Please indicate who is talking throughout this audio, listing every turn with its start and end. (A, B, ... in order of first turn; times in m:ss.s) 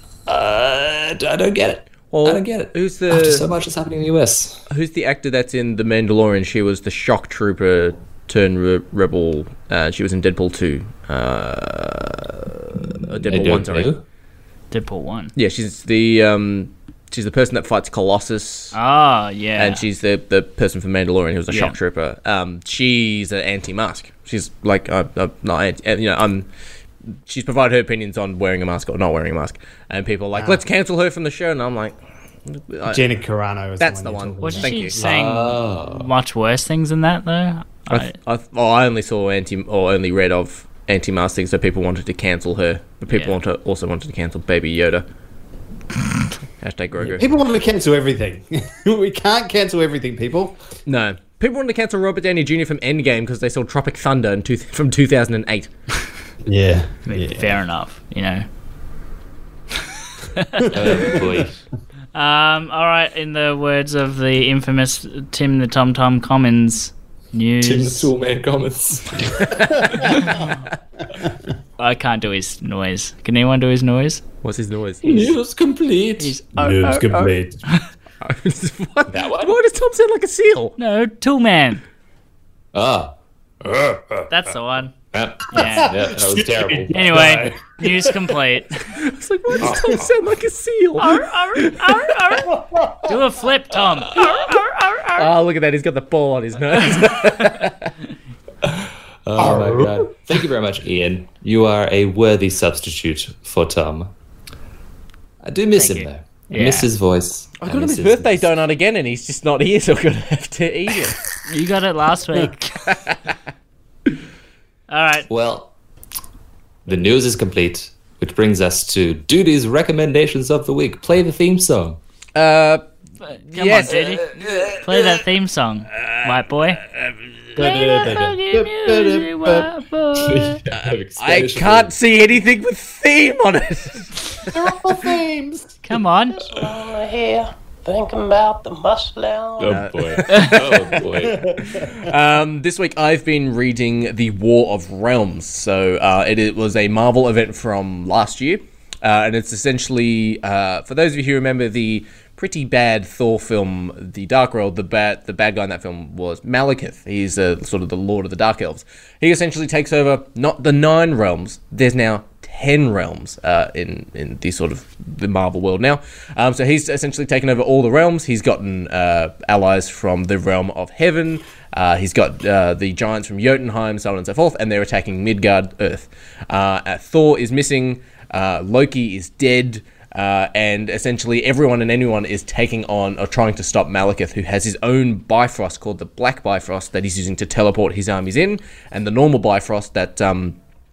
0:00.3-0:04.7 A
0:02.1-0:03.5 B
0:04.7-0:13.9 B
0:13.2-0:14.0 A
0:14.7-0:15.3 C
0:15.4-0:18.8 B
0:18.7-0:19.8 C
0:19.6-0:26.5 B
0:21.5-0:21.8 C
0:27.2-0:32.0 B
0:30.3-0:30.6 D
0:32.5-0:33.1 B
0:32.9-0:34.8 D
0:33.8-0:35.0 B
0:34.4-0:38.1 C
0:35.0-0:36.1 A
0:37.9-0:45.0 B
0:43.1-0:43.4 C
0:46.6-0:47.3 B
0:47.0-0:50.6 D
0:50.8-0:55.7 B
0:56.4-0:57.6 D
0:57.1-0:58.5 C
1:00.2-1:01.2 C
1:00.6-1:01.2 D
1:00.7-1:01.5 A
1:02.1-1:08.1 C
1:07.6-1:09.5 A
1:09.4-1:10.2 B
1:09.8-1:10.1 D
1:11.8-1:14.2 C
1:14.4-1:15.3 B
1:15.0-1:16.4 A
1:16.2-1:17.8 C
1:16.6-1:17.6 D
1:18.2-1:20.7 B
1:19.1-1:19.6 A
1:20.8-1:21.8 C
1:22.7-1:24.3 A
1:24.3-1:24.9 C
1:25.1-1:27.4 A
1:25.5-1:26.0 C
1:25.8-1:28.3 D
1:26.9-1:28.9 C
1:28.9-1:31.7 B
1:29.6-1:30.1 D
1:29.6-1:29.9 A
1:31.0-1:35.3 C
1:32.5-1:33.2 D
1:35.2-1:37.9 B
1:37.2-1:37.7 C
1:38.6-1:44.1 A
1:39.4-1:40.1 D
1:45.4-1:48.5 A
1:45.7-1:46.9 C
1:47.6-1:51.2 B
1:51.4-1:52.8 C
1:52.8-1:53.2 B
1:54.9-1:55.3 C
1:55.3-1:55.7 A
1:56.8-2:02.0 A
2:02.3-2:02.8 B
2:03.2-2:06.8 C
2:03.5-2:04.1 B
2:03.9-2:05.2 A
2:06.0-2:06.3 B
2:06.8-2:07.5 B
2:07.5-2:09.7 D
2:07.6-2:10.6 C
2:10.2-2:11.9 A
2:10.7-2:14.3 B
2:14.5-2:15.7 D
2:15.8-2:16.4 C
2:16.4-2:19.8 E
2:19.6-2:21.5 A
2:19.7-2:21.1 B
2:21.2-2:22.0 D
2:21.6-3:10.6 B